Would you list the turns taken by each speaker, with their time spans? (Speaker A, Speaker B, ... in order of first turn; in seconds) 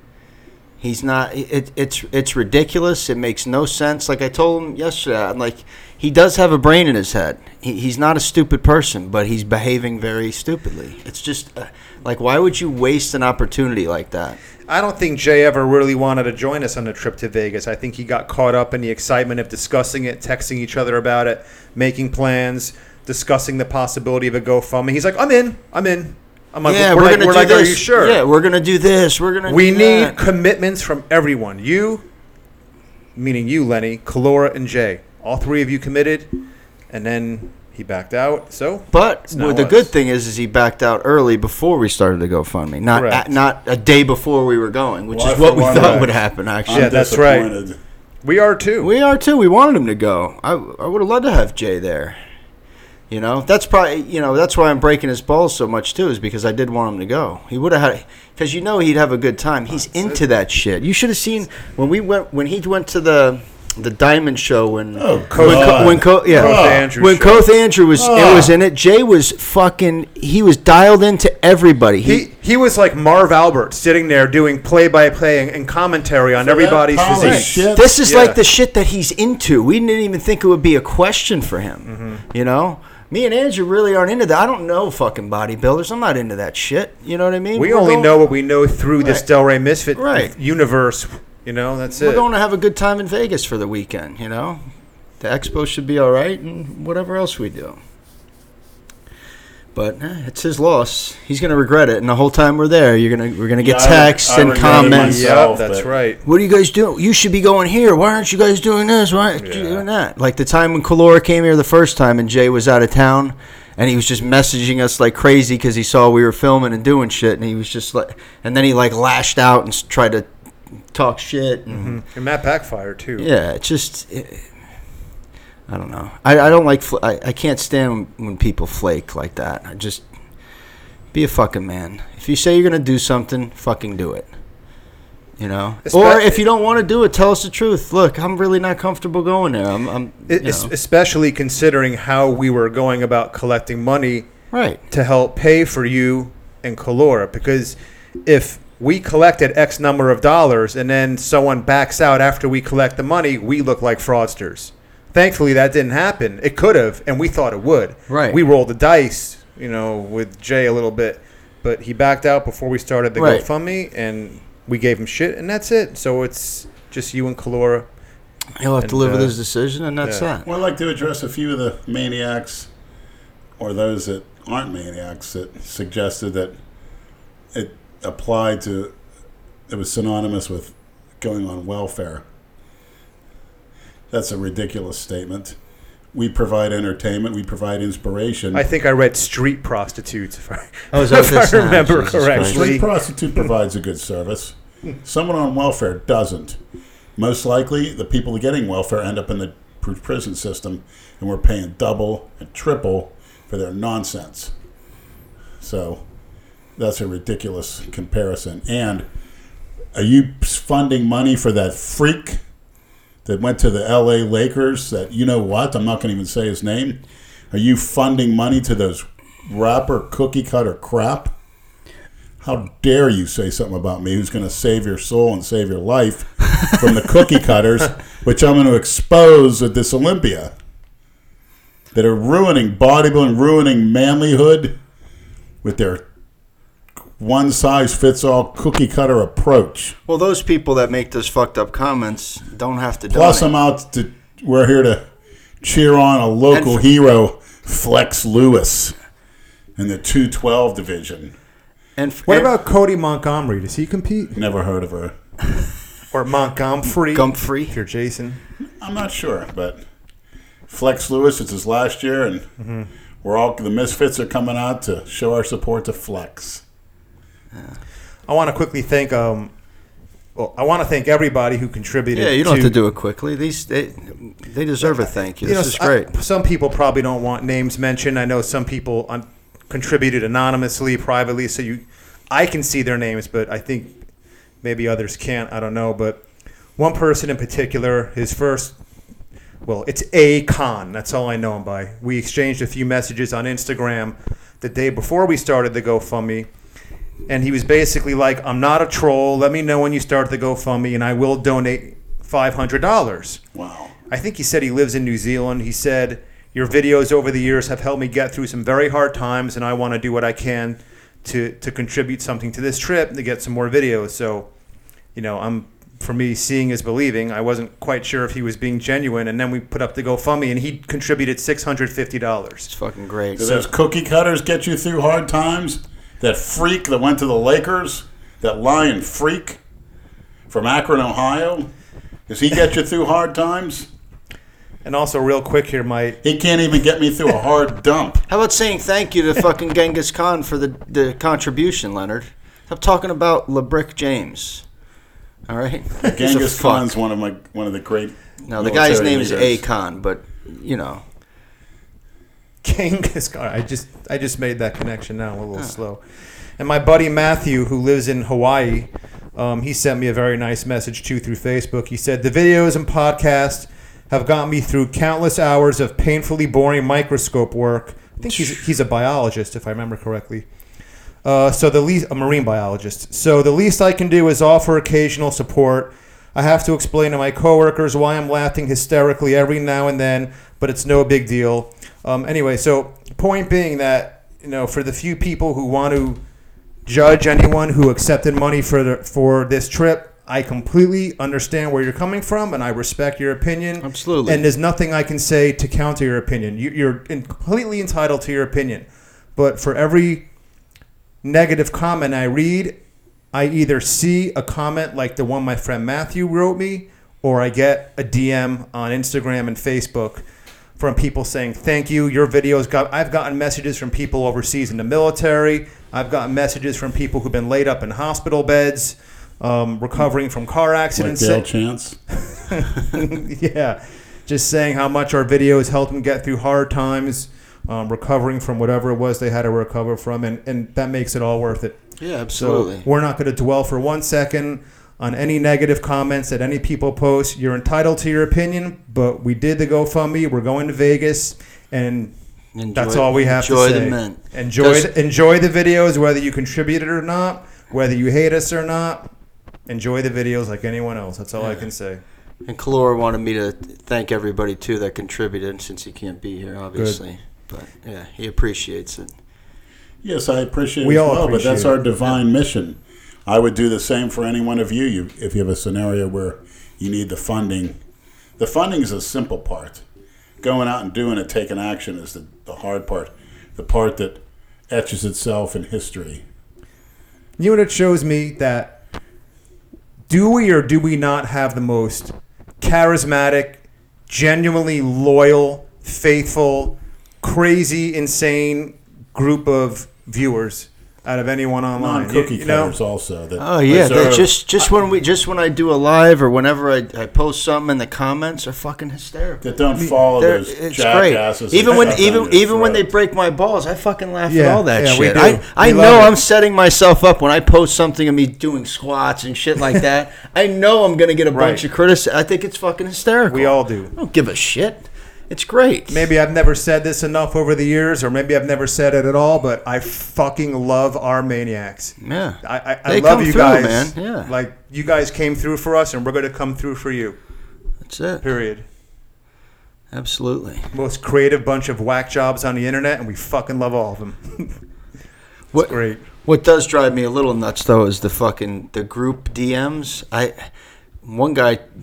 Speaker A: 0.8-14.4, 26.7-30.2, 38.9-46.9, 48.8-52.2, 53.1-72.2, 77.1-88.1, 90.0-90.3, 91.9-94.6, 95.2-97.8, 99.8-105.2, 106.2-120.2, 120.9-122.0, 123.2-124.4, 125.7-130.0, 131.1-134.3, 135.4-140.7, 144.5-144.8, 158.1-158.4, 163.2-163.4, 168.6-170.5, 190.9-192.8, 240.1-243.5, 246.5-246.8, 252.0-252.5, 257.1-257.7, 272.1-276.1, 322.7-323.7, 338.3-344.6, 345.5-346.9, 348.4-351.0, 393.8-394.4, 432.0-432.9, 442.6-444.9, 452.4-459.1, 493.4-499.4, 500.1-516.1, 522.0-524.3, 527.9-528.2, 529.9-530.7, 535.5-540.4, 541.0-541.6
Speaker B: 14.7-28.2, 29.4-32.0, 33.2-36.3, 36.9-39.9, 42.9-43.2, 45.7-46.0, 46.7-47.5, 48.2-48.9, 65.3-67.5, 72.0-78.4, 81.9-82.2, 87.6-92.2, 104.6-106.2, 109.4-109.8, 121.7-123.3, 135.8-136.4, 140.3-144.3, 144.9-167.9, 168.8-169.3, 188.5-192.8, 252.3-254.3, 256.1-258.4, 262.6-262.9, 268.3-269.5, 270.4-272.8, 275.4-284.0, 284.6-286.2, 286.8-288.8, 289.6-296.5, 297.3-303.4, 304.1-314.5, 315.1-322.7, 334.8-336.2, 352.6-356.0, 356.6-370.4, 371.2-386.2, 386.9-400.3, 401.2-402.8, 403.3-410.2, 410.8-421.4, 422.2-431.8, 432.3-442.1, 442.7-449.1, 449.7-452.0, 456.8-457.0, 460.8-461.8, 477.4-478.8, 480.1-492.8, 504.3-506.1, 511.3-511.6, 513.3-513.9, 515.9-527.2, 528.2-528.6, 530.7-534.5, 535.6-536.0
Speaker C: 45.1-47.8, 65.0-66.9, 67.9-68.5, 76.3-77.9, 103.6-105.9, 170.4-172.7, 173.6-176.6, 177.5-178.9, 179.7-182.2, 184.1-185.6, 186.1-188.6, 192.4-196.6, 197.2-204.5, 205.6-206.0, 206.8-209.1, 209.9-212.4, 213.2-221.3, 222.4-230.5, 231.9-234.8, 235.6-236.0, 237.2-239.9, 243.1-245.0, 245.6-248.9, 249.8-251.3, 254.3-255.2, 258.6-259.8, 260.7-262.5, 263.2-266.6, 303.5-303.9, 323.4-329.6, 330.5-331.7, 332.3-333.9, 336.2-338.2, 346.0-349.6, 420.9-422.0, 460.0-467.8, 468.4-469.8, 470.4-476.2, 491.8-494.3, 499.4-502.9